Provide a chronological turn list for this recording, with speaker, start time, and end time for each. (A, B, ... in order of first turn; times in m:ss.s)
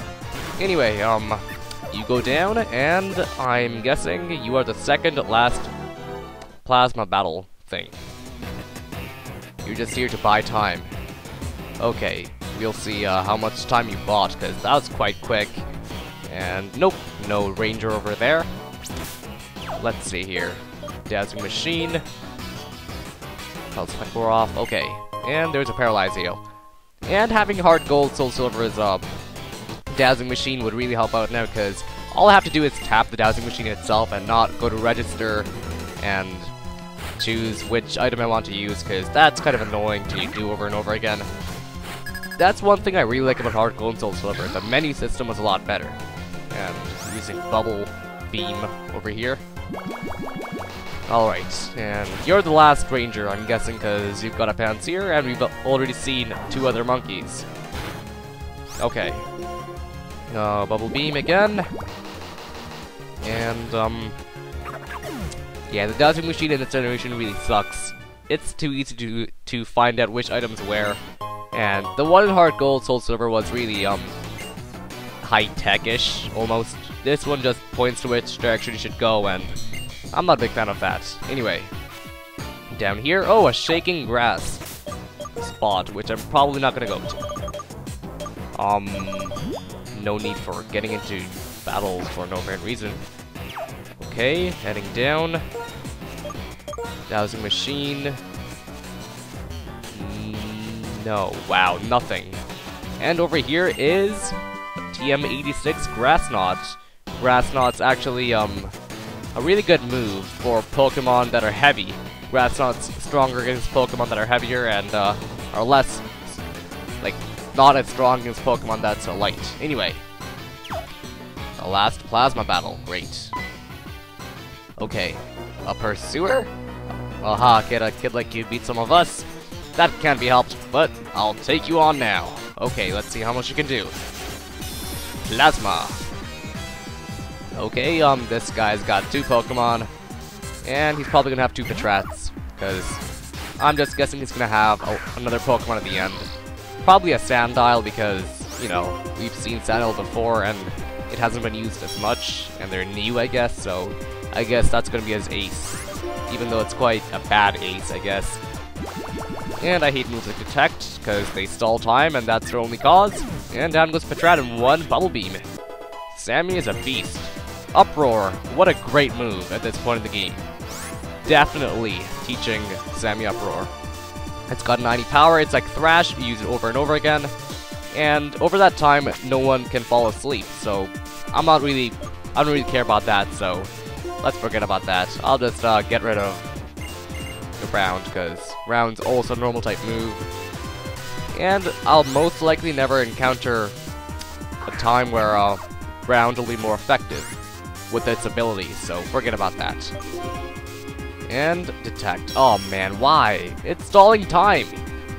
0:00.6-0:05.7 A
0:06.6-0:08.0 A
0:09.6-0:10.9 A
0:11.8-0:15.7 A
0:16.3-0:18.5 A
0:19.8-0:22.0 A
0:23.7-0:26.4 A
0:27.0-0:29.0 A
0:29.9-0:36.5 A
0:37.2-0:41.3 A
0:42.4-0:46.0 A
0:46.5-0:49.4 A
0:51.1-0:57.5 A
0:58.8-0:59.2 A
1:00.3-1:01.7 A
1:03.2-1:04.2 A
1:05.7-1:11.0 A
1:11.5-1:14.2 A
1:15.2-1:19.6 A
1:20.1-1:21.7 A
1:22.7-1:24.6 A
1:25.4-1:27.2 A
1:28.6-1:29.4 A
1:29.9-1:33.0 A
1:34.0-1:35.5 A
1:37.1-1:38.2 A
1:39.9-1:42.4 A
1:43.0-1:44.4 A
1:44.9-1:48.7 A
1:49.4-1:56.4 A
1:57.0-2:00.0 A
2:01.6-2:03.4 A
2:04.8-2:06.5 A
2:07.2-2:14.0 A
2:15.2-2:16.0 A
2:17.6-2:19.9 A
2:20.6-2:23.0 A
2:23.6-2:26.3 A
2:26.8-2:38.4 A
2:39.6-2:45.5 A
2:46.1-2:50.5 A
2:51.2-2:53.7 A
2:54.5-2:57.3 A
2:57.9-3:03.7 A
3:04.2-3:06.5 A
3:07.6-3:10.3 A
3:11.3-3:13.8 A
3:14.6-3:17.4 A
3:17.9-3:19.9 A
3:21.3-3:24.8 A